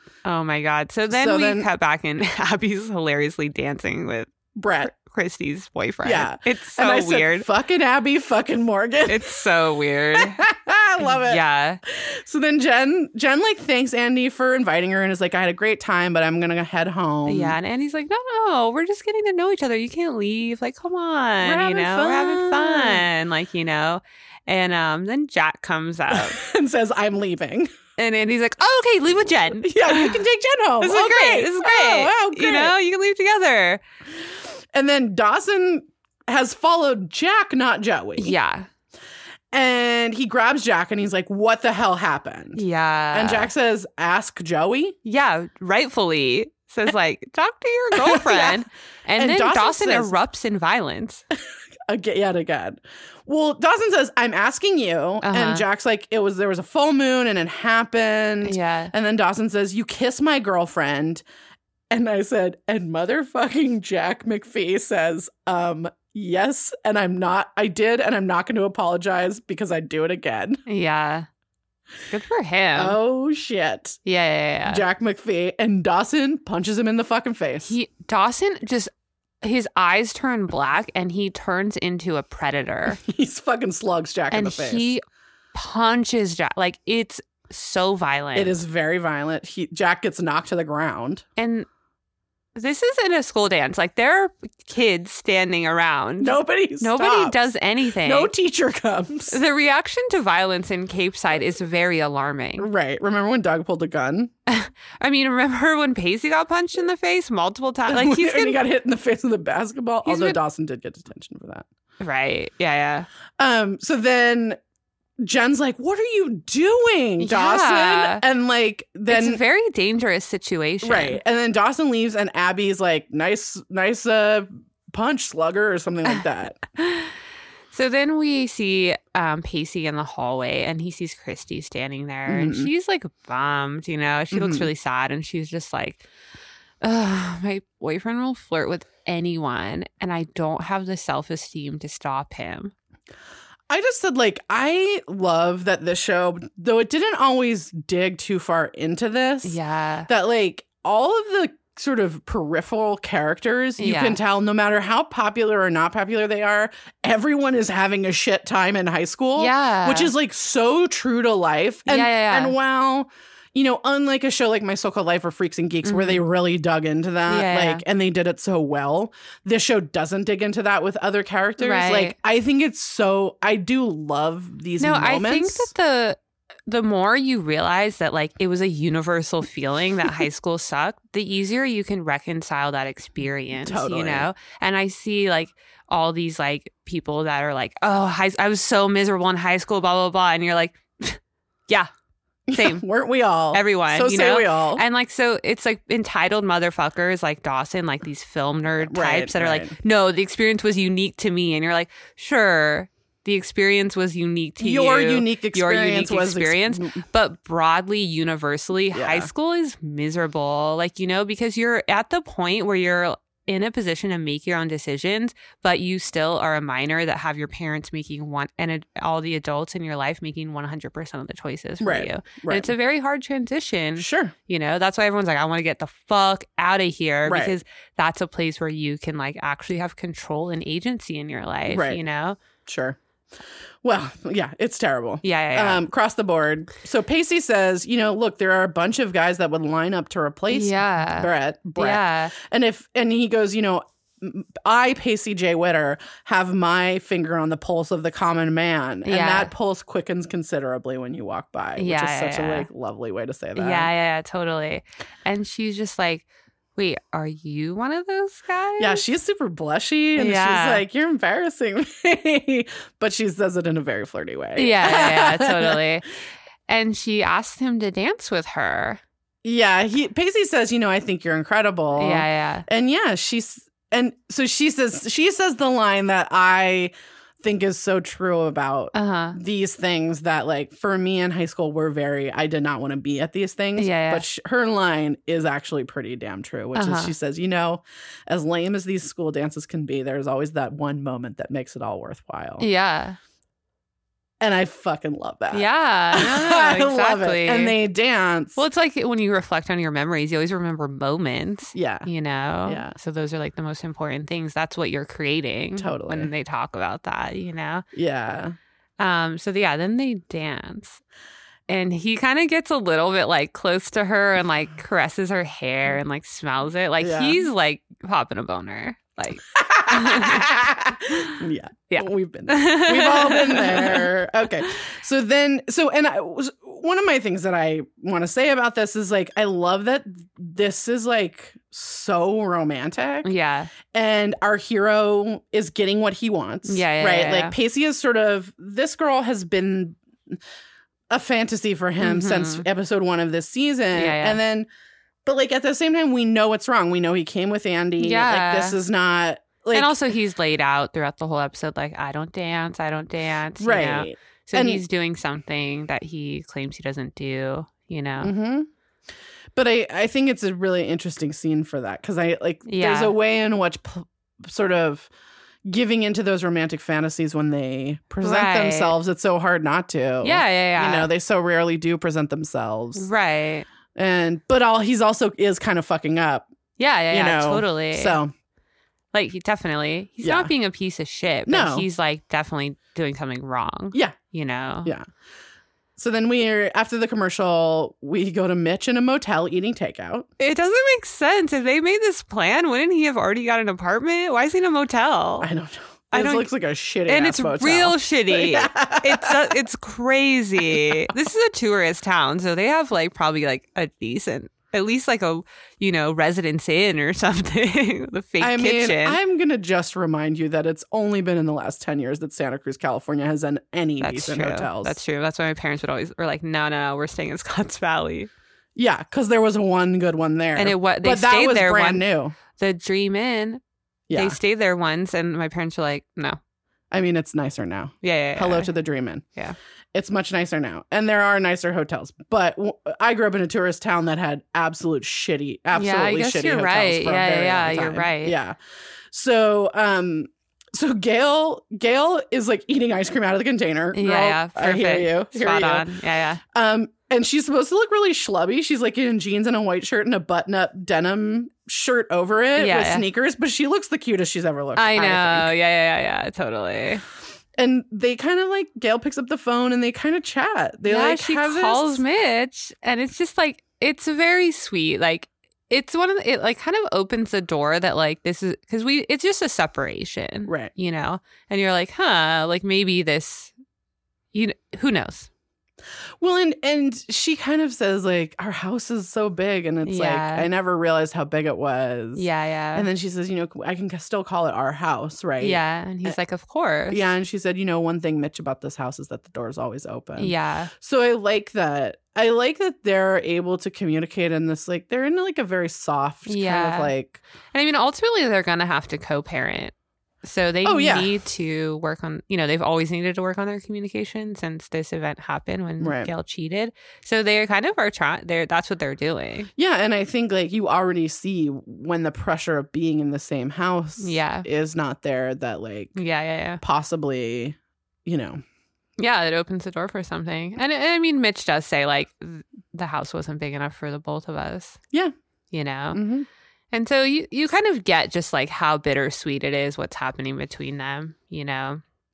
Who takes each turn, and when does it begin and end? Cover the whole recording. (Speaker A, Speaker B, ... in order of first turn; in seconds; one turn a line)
Speaker A: 0.2-4.3
Speaker B: 1.1-1.7
Speaker B: 4.5-4.9
Speaker A: 4.8-7.5
Speaker B: 6.0-9.4
Speaker A: 9.1-10.4
Speaker B: 10.2-17.6
Speaker A: 11.0-11.8
Speaker A: 17.2-26.4
Speaker B: 21.4-23.1
Speaker B: 26.1-27.7
Speaker A: 28.0-30.2
Speaker B: 29.6-32.7
Speaker A: 30.8-33.8
Speaker B: 34.7-38.3
Speaker A: 38.2-38.7
Speaker B: 39.5-42.6
Speaker A: 42.5-43.5
Speaker B: 43.1-45.0
Speaker A: 45.0-51.2
Speaker B: 47.9-48.6
Speaker B: 49.1-50.1
Speaker B: 51.9-61.2
Speaker A: 55.2-55.6
Speaker A: 58.4-58.9
Speaker B: 61.9-70.6
Speaker A: 70.7-71.3
Speaker A: 72.1-73.0
Speaker B: 72.7-74.0
Speaker A: 74.0-74.8
Speaker B: 74.7-77.7
Speaker A: 77.6-83.0
Speaker B: 83.0-84.9
Speaker A: 84.3-85.0
Speaker A: 85.5-88.5
Speaker B: 88.3-91.2
Speaker A: 91.4-91.7
Speaker A: 92.5-98.3
Speaker B: 96.2-97.4
Speaker B: 98.0-99.4
Speaker A: 99.3-102.7
Speaker B: 102.6-104.3
Speaker A: 104.5-108.6
Speaker B: 107.9-111.7
Speaker A: 110.0-110.4
Speaker A: 112.0-113.1
Speaker B: 113.4-114.6
Speaker B: 115.2-119.4
Speaker A: 117.2-118.2
Speaker A: 119.1-121.2
Speaker B: 120.8-126.6
Speaker A: 126.8-127.1
Speaker A: 127.7-136.0
Speaker B: 132.3-132.7
Speaker B: 134.3-134.7
Speaker A: 136.8-142.7
Speaker B: 143.7-175.7
Speaker A: 149.4-150.1
Speaker A: 153.8-154.2
Speaker A: 159.4-160.1
Speaker A: 161.9-162.6
Speaker A: 165.8-166.2
Speaker A: 167.3-167.8
Speaker A: 171.6-172.2
Speaker A: 174.8-191.9
Speaker B: 183.6-184.3
Speaker B: 192.5-194.8
Speaker A: 192.5-192.8
Speaker A: 193.5-232.4
Speaker B: 198.8-199.8
Speaker B: 204.6-207.0
Speaker B: 208.9-209.3
Speaker B: 221.8-222.7
Speaker B: 224.0-224.3
Speaker B: 227.2-227.5
Speaker B: 231.7-232.0
Speaker B: 232.7-233.0
Speaker B: 233.8-253.9
Speaker A: 235.2-235.8
Speaker A: 240.5-242.3
Speaker A: 249.0-249.5
Speaker A: 251.8-252.7
Speaker A: 253.6-259.0
Speaker B: 258.8-265.8
Speaker A: 260.2-260.8
Speaker A: 264.6-266.1
Speaker A: 266.7-269.0
Speaker B: 269.4-292.6
Speaker A: 272.0-272.7
Speaker A: 278.9-279.4
Speaker A: 283.8-284.2
Speaker A: 286.7-287.1
Speaker A: 292.6-293.2
Speaker B: 294.4-298.6
Speaker A: 295.5-297.8
Speaker A: 298.6-307.8
Speaker B: 301.7-302.1
Speaker B: 302.6-302.9
Speaker B: 305.8-306.3
Speaker B: 307.9-308.6
Speaker A: 309.0-311.0
Speaker A: 311.7-320.4
Speaker B: 317.0-317.4
Speaker B: 319.6-333.3
Speaker A: 321.1-321.4
Speaker A: 321.9-324.1
Speaker A: 333.2-333.7
Speaker B: 333.9-340.4
Speaker A: 336.6-337.5
Speaker B: 341.1-344.7
Speaker A: 342.0-342.6
Speaker A: 343.9-344.4
Speaker B: 345.2-349.9
Speaker A: 348.0-348.8
Speaker A: 349.7-358.3
Speaker B: 353.6-354.8
Speaker B: 358.2-358.7
Speaker B: 359.6-365.1
Speaker A: 362.6-363.1
Speaker B: 365.6-373.1
Speaker A: 368.2-368.9
Speaker A: 370.2-371.1
Speaker A: 372.9-373.6
Speaker B: 373.9-376.5
Speaker A: 376.8-378.2
Speaker B: 377.1-378.3
Speaker A: 379.1-384.9
Speaker B: 380.2-380.5
Speaker B: 381.4-381.9
Speaker B: 386.0-390.3
Speaker A: 390.4-395.5
Speaker B: 395.4-399.6
Speaker A: 396.1-396.5
Speaker A: 397.1-409.2
Speaker B: 400.7-401.1
Speaker B: 408.4-415.0
Speaker A: 414.0-418.3
Speaker B: 418.8-422.4
Speaker A: 420.6-423.6
Speaker B: 424.1-424.4
Speaker A: 424.1-426.4
Speaker B: 426.9-429.2
Speaker A: 428.0-428.7
Speaker B: 429.9-438.6
Speaker A: 435.7-438.4
Speaker B: 439.1-445.9
Speaker A: 443.9-446.4
Speaker B: 446.5-455.5
Speaker A: 452.6-453.0
Speaker A: 454.8-457.0
Speaker B: 457.6-462.0
Speaker A: 460.9-473.5
Speaker A: 474.3-475.3
Speaker B: 476.2-486.2
Speaker A: 479.8-480.5
Speaker A: 482.1-482.9
Speaker A: 485.4-487.1
Speaker B: 486.9-497.2
Speaker A: 490.2-490.7
Speaker A: 496.2-496.9
Speaker A: 497.5-509.5
Speaker B: 500.6-501.1
Speaker B: 505.8-506.1
Speaker B: 509.6-516.0
Speaker A: 514.0-514.5
Speaker A: 515.9-516.6
Speaker B: 516.6-518.4
Speaker A: 519.0-524.8
Speaker A: 525.5-526.0
Speaker B: 525.9-526.3
Speaker A: 526.7-531.8